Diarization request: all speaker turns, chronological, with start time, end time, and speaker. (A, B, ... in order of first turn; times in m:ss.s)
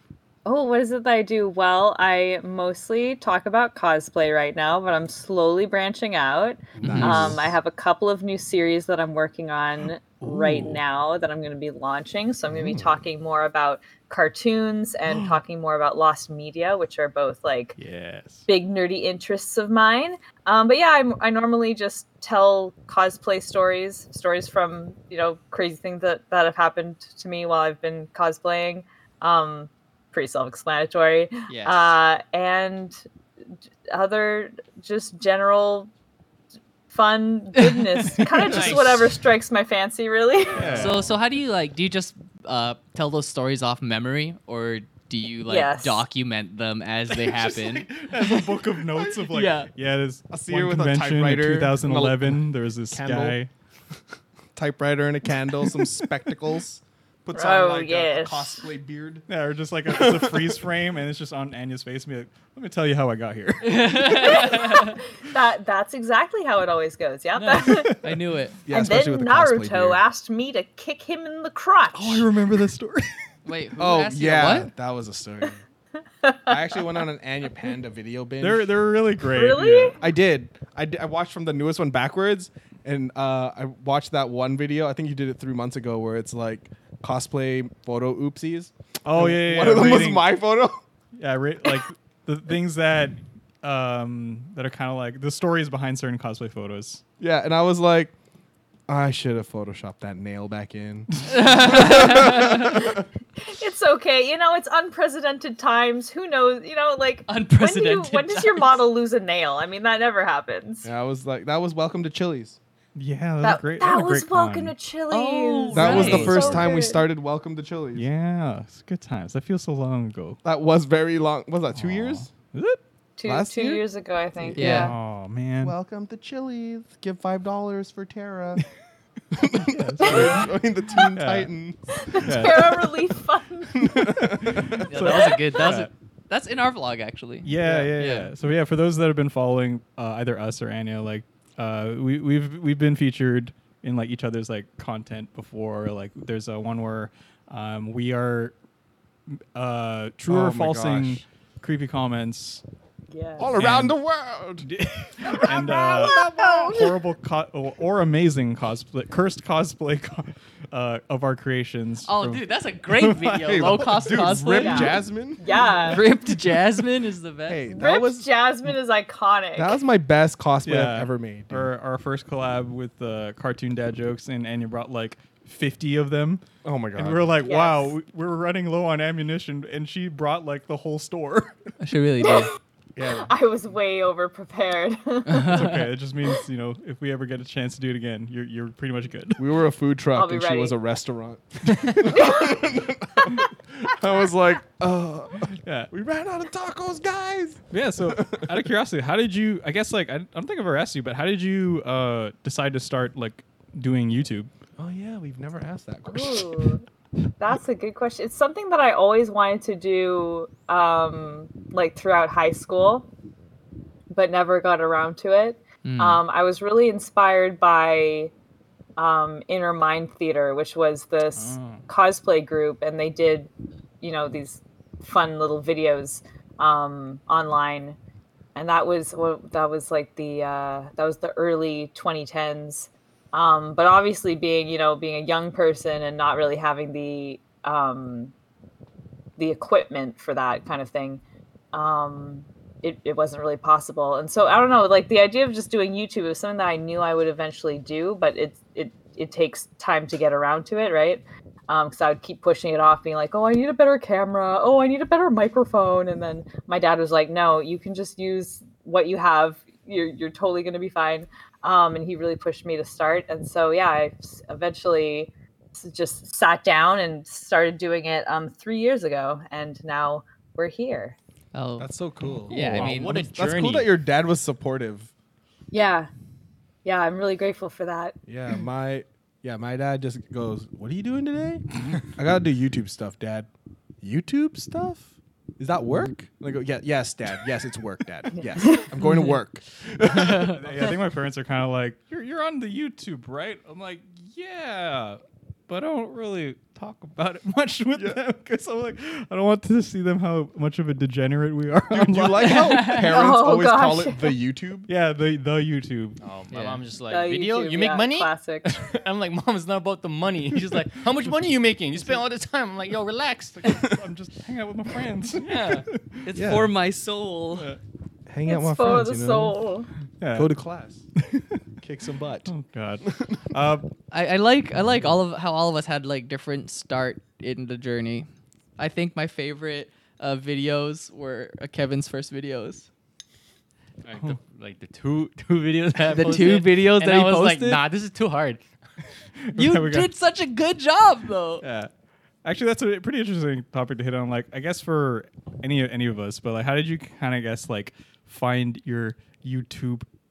0:00.4-0:17.8 A
0:06.8-0:07.5 B
0:06.8-0:07.3 C
0:06.8-0:07.3 D
0:10.2-0:10.8 D
0:12.5-0:13.0 B
0:15.1-0:15.4 D
0:17.8-0:18.4 D
0:18.5-0:33.0 A
0:31.5-0:32.0 E
0:33.9-0:35.9 A
0:36.9-0:40.9 A
0:37.5-0:38.8 C
0:38.5-0:39.0 E
0:40.5-0:41.1 D
0:40.7-0:41.1 E
0:40.7-0:49.7 C
0:45.4-0:46.0 A
0:47.1-0:53.5 D
0:50.3-0:53.4 B
0:54.6-0:59.2 B
0:57.3-0:58.6 A
0:59.3-1:04.6 D
0:59.9-1:00.6 B
1:03.6-1:05.0 C
1:04.1-1:08.0 A
1:07.3-1:08.6 C
1:08.7-1:10.0 B
1:08.7-1:12.3 A
1:11.9-1:13.1 D
1:13.4-1:14.7 C
1:13.8-1:15.6 B
1:16.2-1:16.8 A
1:16.5-1:18.7 B
1:18.4-1:20.0 D
1:19.3-1:20.0 A
1:20.0-1:30.8 B
1:29.0-1:30.3 D
1:31.2-1:37.0 D
1:37.2-1:38.1 B
1:38.9-1:43.0 B
1:41.3-1:42.7 C
1:42.7-1:50.9 A
1:47.3-1:48.8 C
1:50.8-1:52.6 B
1:52.9-1:54.7 D
1:53.4-1:57.0 A
1:55.1-1:56.4 C
1:55.7-1:58.1 B
1:55.9-1:56.7 D
1:57.9-2:00.4 D
2:00.4-2:02.3 B
2:01.7-2:02.8 D
2:03.2-2:04.9 A
2:03.2-2:03.8 B
2:04.5-2:05.7 D
2:04.5-2:04.9 C
2:05.6-2:08.6 B
2:09.3-2:12.6 B
2:09.5-2:10.5 D
2:10.0-2:11.0 A
2:11.0-2:11.5 D
2:12.0-2:13.9 A
2:12.1-2:12.9 D
2:13.7-2:14.8 B
2:14.0-2:15.9 D
2:14.8-2:18.3 C
2:15.1-2:15.4 A
2:17.4-2:28.5 D
2:17.6-2:17.9 B
2:29.5-2:32.6 D
2:30.3-2:31.2 B
2:33.1-2:33.5 A
2:33.4-2:34.7 B
2:33.5-2:34.0 D
2:34.6-2:44.3 D
2:35.2-2:36.9 A
2:42.0-2:45.0 C
2:43.4-2:45.4 B
2:44.6-2:46.0 A
2:45.9-2:47.7 C
2:47.5-2:48.7 B
2:47.7-2:49.8 A
2:49.5-2:51.7 B
2:50.6-3:01.5 D
2:56.6-2:57.4 B
2:57.4-2:57.9 A
3:01.8-3:02.5 C
3:02.2-3:02.5 A
3:03.0-3:03.3 B
3:03.1-3:05.7 A
3:05.3-3:05.8 C
3:05.4-3:09.4 D
3:09.4-3:18.7 B
3:10.1-3:10.8 A
3:12.1-3:12.6 A
3:13.2-3:13.4 A
3:15.5-3:15.9 D
3:17.7-3:24.5 D
3:24.8-3:26.6 B
3:26.1-3:26.8 A
3:27.4-3:33.1 A
3:34.1-3:38.3 A
3:35.8-3:36.2 C
3:39.0-3:43.5 A
3:41.3-3:41.8 D
3:44.0-3:48.0 A
3:48.5-3:58.3 A
3:59.4-4:01.2 A
4:01.7-4:31.2 A
4:31.5-4:31.9 C
4:31.8-4:35.1 B
4:32.5-4:33.1 C
4:32.5-4:33.9 E
4:35.7-4:36.1 A
4:36.8-4:38.2 A
4:38.3-4:43.5 B
4:44.0-4:50.7 B
4:48.4-4:48.8 A
4:49.0-4:49.3 C
4:50.1-4:50.5 C
4:50.5-5:02.7 D
5:01.9-5:04.9 B
5:02.4-5:03.2 C
5:02.9-5:04.3 A
5:04.9-5:06.2 D
5:06.2-5:13.8 E
5:06.5-5:06.8 C
5:07.1-5:08.8 A
5:13.6-5:16.2 D
5:13.7-5:14.0 B
5:15.4-5:15.8 E
5:15.6-5:17.7 C
5:16.3-5:16.7 B
5:18.3-5:19.5 B
5:18.4-5:19.9 A
5:20.2-5:20.5 D
5:20.3-5:21.0 B
5:21.2-5:21.6 D
5:21.8-5:22.5 B
5:22.4-5:23.9 D
5:23.0-5:23.4 B
5:24.1-5:32.9 C
5:34.0-5:38.7 E
5:36.1-5:37.8 C
5:39.4-5:40.1 D
5:39.5-5:41.6 C
5:41.6-5:41.9 D
5:42.4-5:50.0 D